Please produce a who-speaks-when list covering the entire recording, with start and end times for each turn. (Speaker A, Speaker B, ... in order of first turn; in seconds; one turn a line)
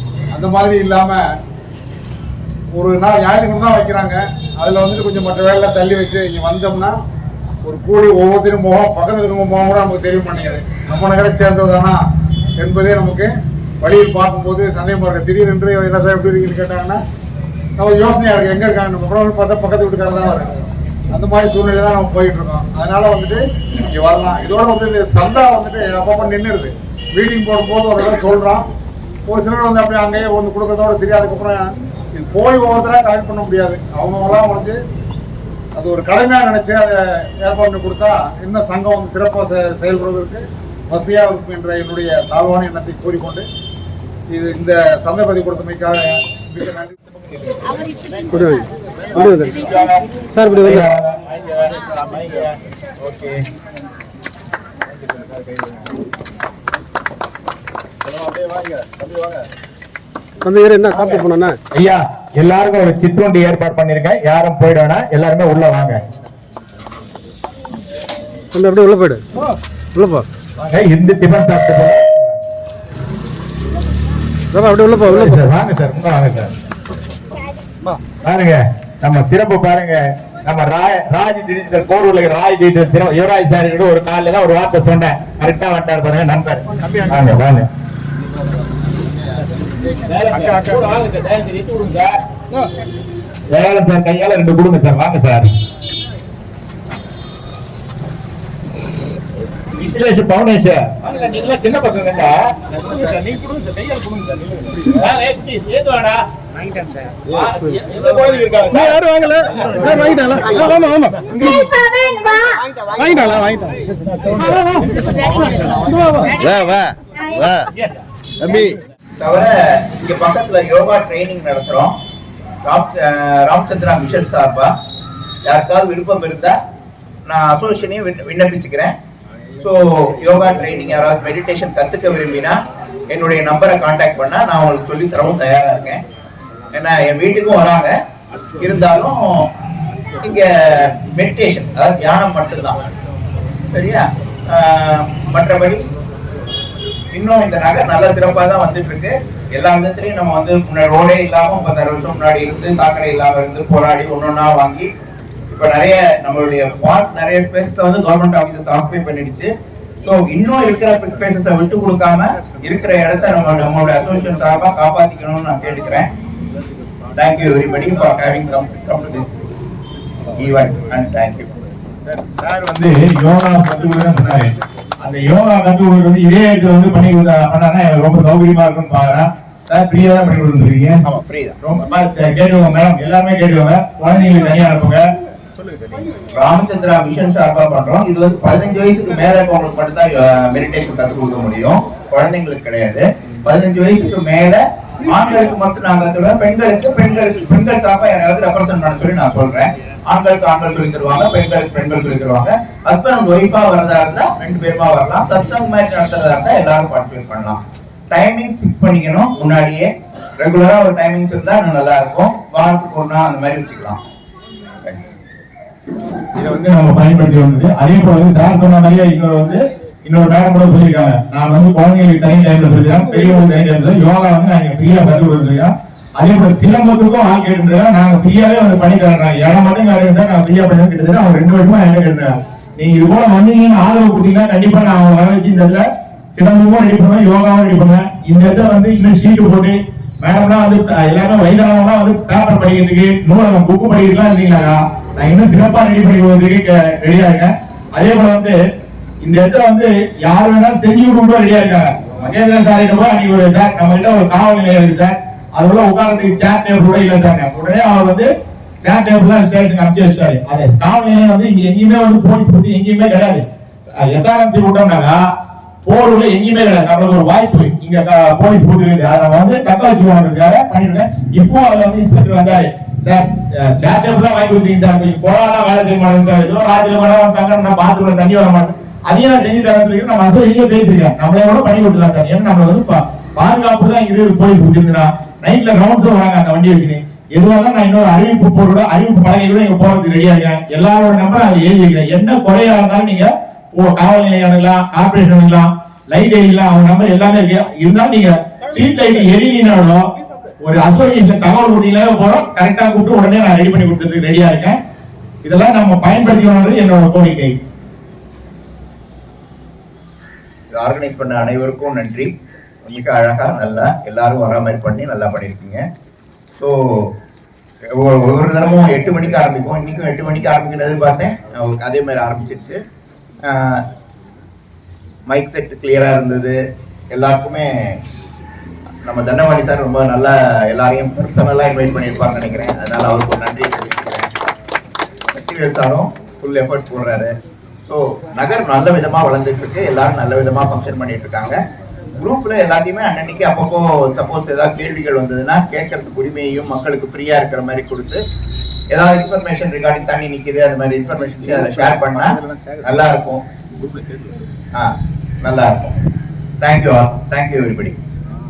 Speaker A: 0.3-1.2
Speaker A: 2.7-7.0
Speaker A: 7.6-12.0
Speaker A: 12.6-17.0
Speaker A: 17.8-20.6
Speaker A: 21.1-28.6
Speaker A: 29.3-34.8
Speaker A: 35.8-43.5
Speaker A: 44.3-47.0
Speaker B: 48.3-49.5
Speaker C: 49.1-53.4
Speaker B: 50.3-50.7
Speaker C: 55.0-55.8
Speaker C: 58.1-59.4
Speaker B: 60.4-61.6
Speaker C: 61.0-66.0
Speaker B: 68.5-69.2
Speaker B: 70.0-70.2
Speaker C: 70.6-72.3
Speaker B: 74.5-75.3
Speaker C: 75.0-76.5
Speaker C: 78.2-87.7
Speaker C: 90.1-92.2
Speaker C: 93.5-95.5
Speaker C: 99.7-106.2
Speaker C: 107.3-112.4
Speaker C: 114.2-114.8
Speaker D: 116.3-116.8
Speaker D: 119.2-121.9
Speaker D: 122.6-124.7
Speaker D: 125.5-126.6
Speaker D: 127.3-128.9
Speaker D: 129.6-132.6
Speaker D: 133.1-136.0
Speaker D: 136.7-137.9
Speaker D: 138.6-139.5
Speaker D: 140.2-142.8
Speaker D: 143.7-145.8
Speaker D: 147.1-154.9
Speaker D: 155.5-159.5
Speaker D: 160.0-166.1
Speaker D: 167.1-169.4
Speaker D: 170.4-171.5
Speaker C: 172.0-181.0
Speaker D: 181.1-181.6
Speaker C: 181.6-185.0
Speaker D: 186.3-214.0
Speaker C: 216.3-248.6
Speaker C: 249.2-258.3
Speaker C: 258.8-263.4
Speaker C: 264.0-265.2
Speaker C: 265.9-300.1
Speaker C: 300.6-304.8
Speaker C: 305.4-307.6
Speaker D: 310.7-312.3
Speaker D: 312.9-315.8
Speaker D: 316.6-317.1
Speaker D: 317.9-322.8
Speaker D: 323.4-323.8
Speaker D: 325.3-326.6
Speaker D: 327.1-328.0
Speaker D: 329.0-334.3
Speaker D: 335.3-337.3
Speaker D: 337.9-341.6
Speaker D: 342.1-348.2
Speaker D: 348.9-353.4
Speaker D: 354.8-356.0
Speaker D: 356.6-358.0